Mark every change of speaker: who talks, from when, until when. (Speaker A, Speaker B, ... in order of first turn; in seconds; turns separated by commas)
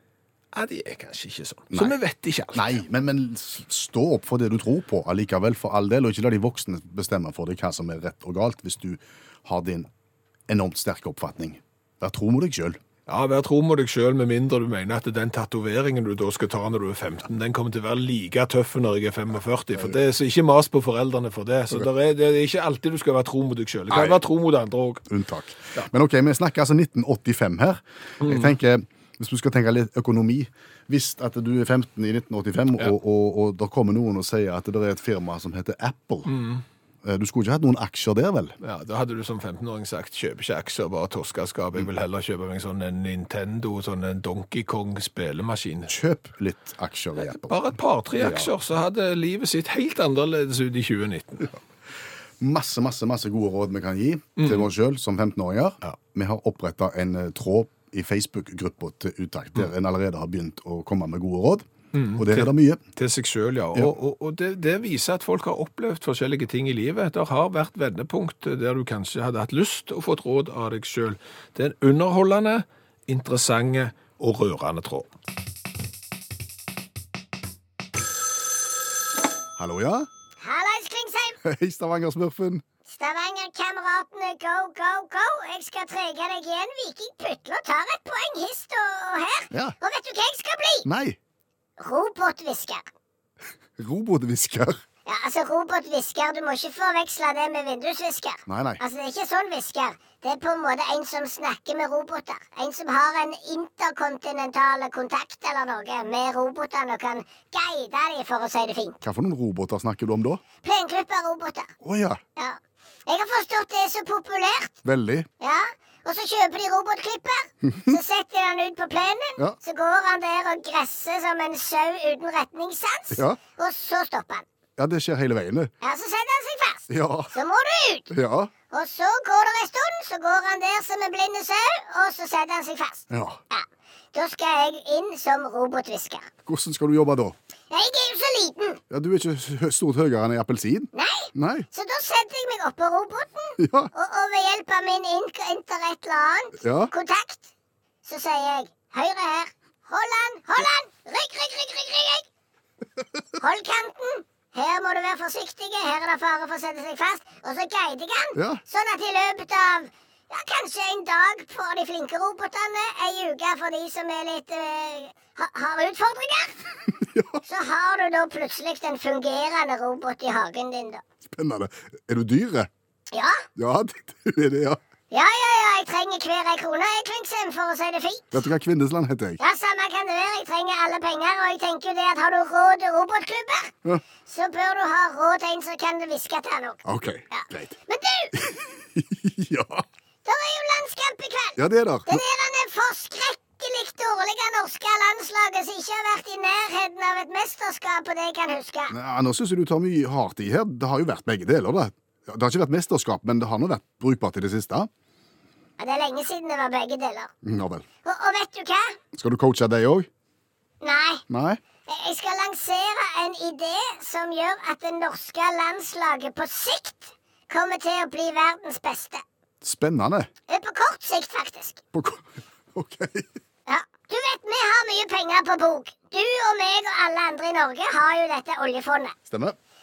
Speaker A: 0.5-2.8, Speaker B: 2.5-9.9, Speaker B: 10.5-12.8, Speaker A: 13.1-25.1, Speaker B: 23.9-24.2, Speaker B: 25.1-36.3, Speaker A: 28.2-28.5, Speaker A: 36.2-36.6, Speaker B: 37.0-38.5, Speaker A: 38.6-45.9, Speaker B: 45.9-47.6, Speaker A: 47.2-51.5, Speaker B: 48.2-48.5, Speaker B: 52.4-62.8, Speaker A: 54.4-54.7, Speaker A: 61.9-75.1, Speaker B: 79.6-80.1, Speaker C: 80.4-81.4, Speaker B: 81.4-82.6, Speaker C: 82.9-90.9, Speaker B: 90.8-91.2, Speaker C: 91.8-92.9, Speaker B: 93.8-94.8, Speaker C: 95.1-109.0, Speaker B: 98.5-98.8, Speaker B: 109.0-110.4, Speaker C: 110.6-111.7, Speaker B: 111.8-112.2, Speaker C: 112.4-114.8, Speaker B: 114.8-115.3, Speaker C: 115.4-124.4, Speaker B: 123.1-123.4, Speaker B: 124.8-125.7, Speaker C: 125.8-128.1, Speaker B: 126.9-127.3, Speaker B: 128.1-128.5, Speaker C: 128.7-136.3, Speaker B: 133.1-133.4, Speaker B: 136.4-137.4, Speaker C: 137.7-138.8, Speaker B: 138.9-141.7, Speaker C: 140.9-147.5, Speaker B: 143.6-143.9, Speaker B: 146.6-146.9, Speaker C: 148.1-152.3, Speaker C: 153.4-166.6, Speaker B: 158.3-158.6, Speaker B: 166.9-167.4, Speaker C: 167.4-171.0, Speaker B: 171.3-172.7, Speaker C: 173.1-173.4, Speaker B: 173.6-174.8, Speaker C: 175.1-178.4, Speaker B: 178.3-179.4, Speaker C: 179.4-188.3, Speaker B: 186.8-187.8, Speaker B: 188.3-189.8, Speaker C: 190.2-198.9, Speaker B: 191.6-192.2, Speaker B: 198.9-204.9, Speaker C: 205.8-207.3, Speaker B: 207.4-207.8, Speaker C: 208.1-208.9, Speaker B: 209.1-210.1, Speaker C: 210.8-211.2, Speaker B: 211.3-211.6, Speaker C: 211.9-219.2, Speaker B: 219.6-220.3, Speaker C: 220.5-221.8, Speaker B: 221.9-223.3, Speaker C: 223.7-229.2, Speaker B: 229.3-229.6